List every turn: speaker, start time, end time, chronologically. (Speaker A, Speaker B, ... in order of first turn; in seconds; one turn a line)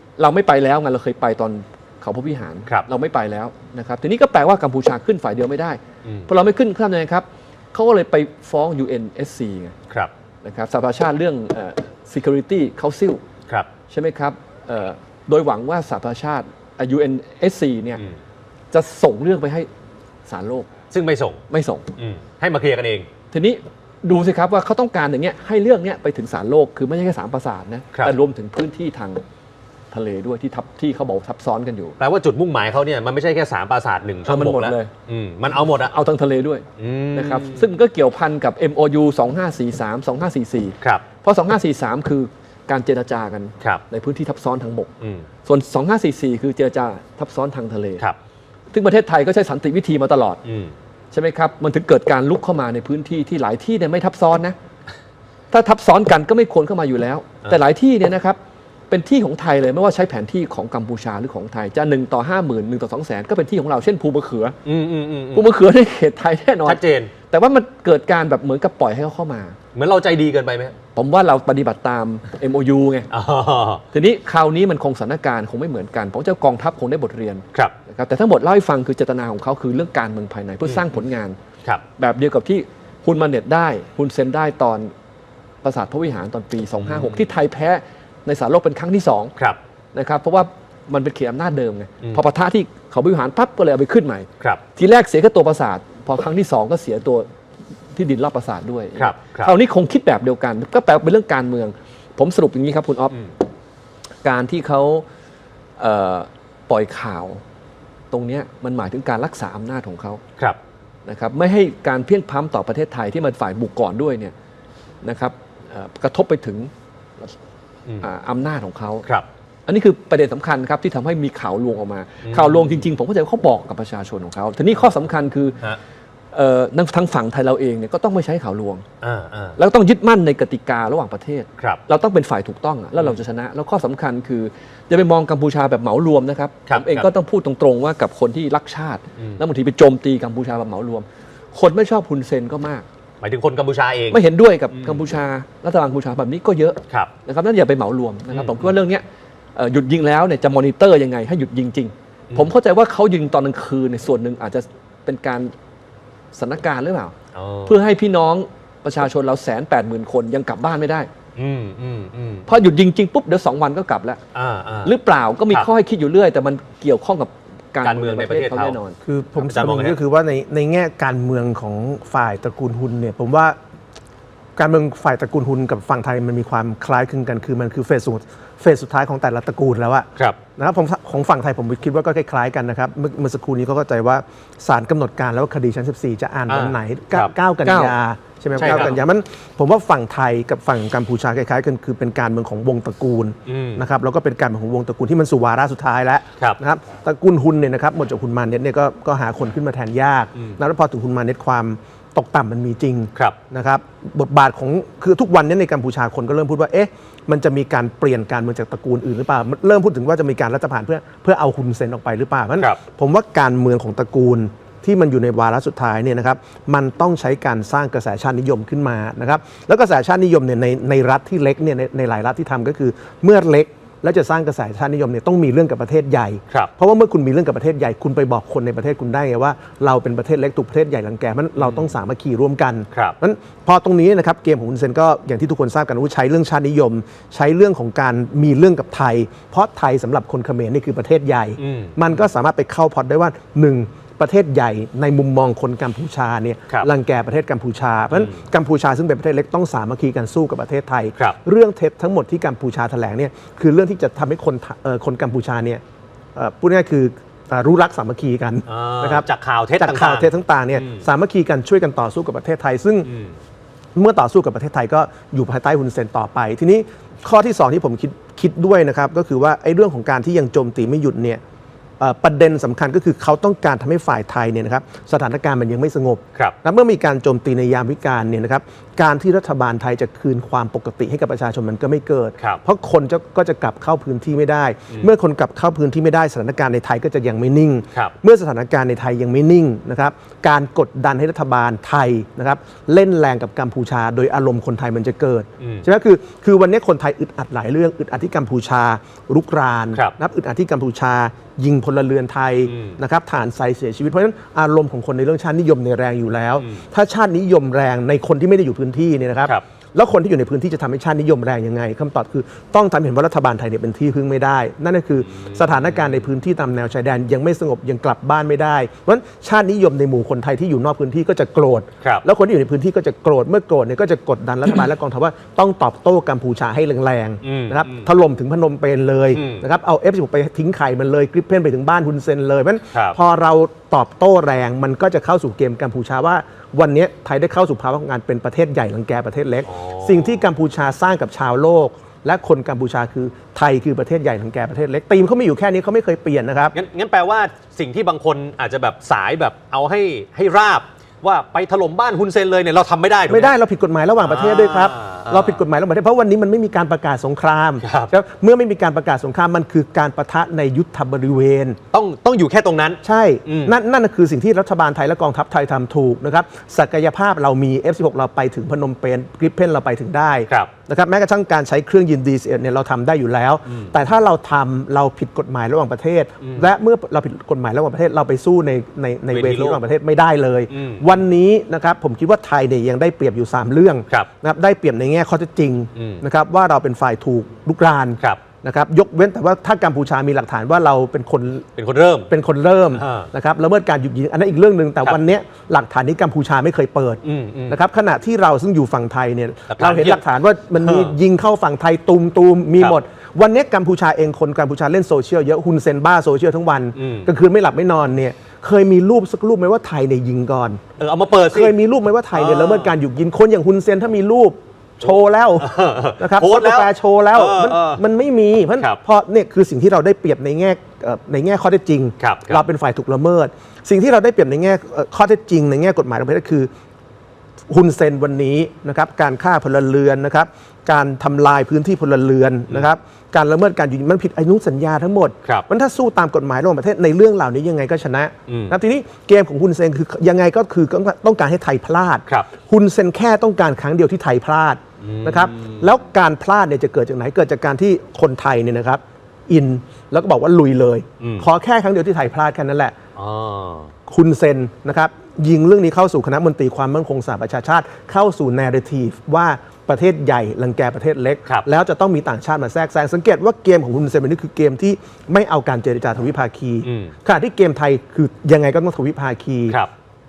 Speaker A: 0.2-9.7
Speaker B: 6.0-6.3
Speaker A: 10.4-13.2
Speaker A: 13.9-18.0
Speaker A: 18.7-19.7
Speaker A: 20.3-20.7
Speaker B: 20.9-21.4
Speaker A: 21.5-21.9
Speaker B: 22.0-23.1
Speaker A: 23.3-29.2
Speaker A: 29.9-31.9
Speaker B: 32.0-35.9
Speaker A: 34.2-34.9
Speaker A: 35.7-44.9
Speaker B: 36.8-37.7
Speaker B: 45.0-45.2
Speaker A: 45.4-48.0
Speaker A: 48.7-50.4
Speaker B: 50.4-50.7
Speaker A: 51.1-54.5
Speaker A: 55.5-58.4
Speaker A: 58.9-64.5
Speaker B: 64.6-65.5
Speaker A: 65.3-69.5
Speaker B: 66.6-67.1
Speaker B: 69.7-70.7
Speaker A: 70.9-73.1
Speaker B: 73.1-73.8
Speaker A: 73.9-81.4
Speaker A: 82.0-84.9
Speaker A: 85.6-89.3
Speaker B: 86.8-87.1
Speaker A: 89.9-97.3
Speaker A: 97.9-103.3
Speaker B: 99.0-99.5
Speaker A: 104.2-105.0
Speaker A: 105.8-107.4
Speaker A: 108.1-110.2
Speaker A: 111.0-114.3
Speaker A: 115.0-117.3
Speaker A: 118.0-119.1
Speaker A: 119.7-125.6
Speaker B: 122.2-122.7
Speaker A: 126.3-128.8
Speaker B: 129.0-129.6
Speaker A: 129.6-142.8
Speaker B: 136.7-137.1
Speaker B: 139.2-139.4
Speaker B: 143.2-144.2
Speaker A: 144.1-149.0
Speaker B: 148.3-148.7
Speaker A: 149.5-155.5
Speaker A: 156.3-157.1
Speaker B: 157.3-157.7
Speaker A: 157.7-161.1
Speaker B: 161.4-162.5
Speaker A: 162.5-164.2
Speaker B: 164.3-164.9
Speaker A: 164.8-169.0
Speaker B: 167.8-168.8
Speaker C: 169.0-173.6
Speaker B: 169.4-170.0
Speaker C: 174.6-255.8
Speaker B: 186.5-187.3
Speaker A: 187.6-187.9
Speaker B: 188.6-189.0
Speaker B: 193.5-193.8
Speaker B: 232.9-233.2
Speaker B: 241.6-242.1
Speaker C: 256.4-259.2
Speaker B: 258.7-261.0
Speaker C: 259.8-263.1
Speaker B: 263.0-263.4
Speaker C: 263.9-271.4
Speaker C: 272.0-346.7
Speaker B: 302.7-303.0
Speaker B: 315.5-316.1
Speaker B: 327.4-328.1
Speaker B: 329.3-329.6
Speaker B: 339.7-340.4
Speaker B: 346.7-353.5
Speaker C: 353.3-361.8
Speaker B: 354.2-355.6
Speaker B: 357.8-358.1
Speaker B: 361.9-363.7
Speaker C: 363.0-391.6
Speaker B: 376.4-376.7
Speaker B: 379.3-379.8
Speaker B: 380.7-381.1
Speaker B: 385.9-386.2
Speaker B: 391.8-392.3
Speaker C: 392.3-410.8
Speaker B: 392.9-393.3
Speaker B: 397.2-397.8
Speaker B: 399.7-400.2
Speaker B: 400.8-401.2
Speaker B: 406.9-407.3
Speaker B: 411.0-411.7
Speaker C: 411.5-426.7
Speaker B: 412.3-412.9
Speaker B: 415.0-418.0
Speaker B: 422.2-422.6
Speaker C: 427.7-452.9
Speaker B: 438.5-438.7
Speaker B: 445.0-445.9
Speaker B: 451.2-451.4
Speaker B: 453.1-453.9
Speaker C: 454.1-469.8
Speaker B: 466.8-467.1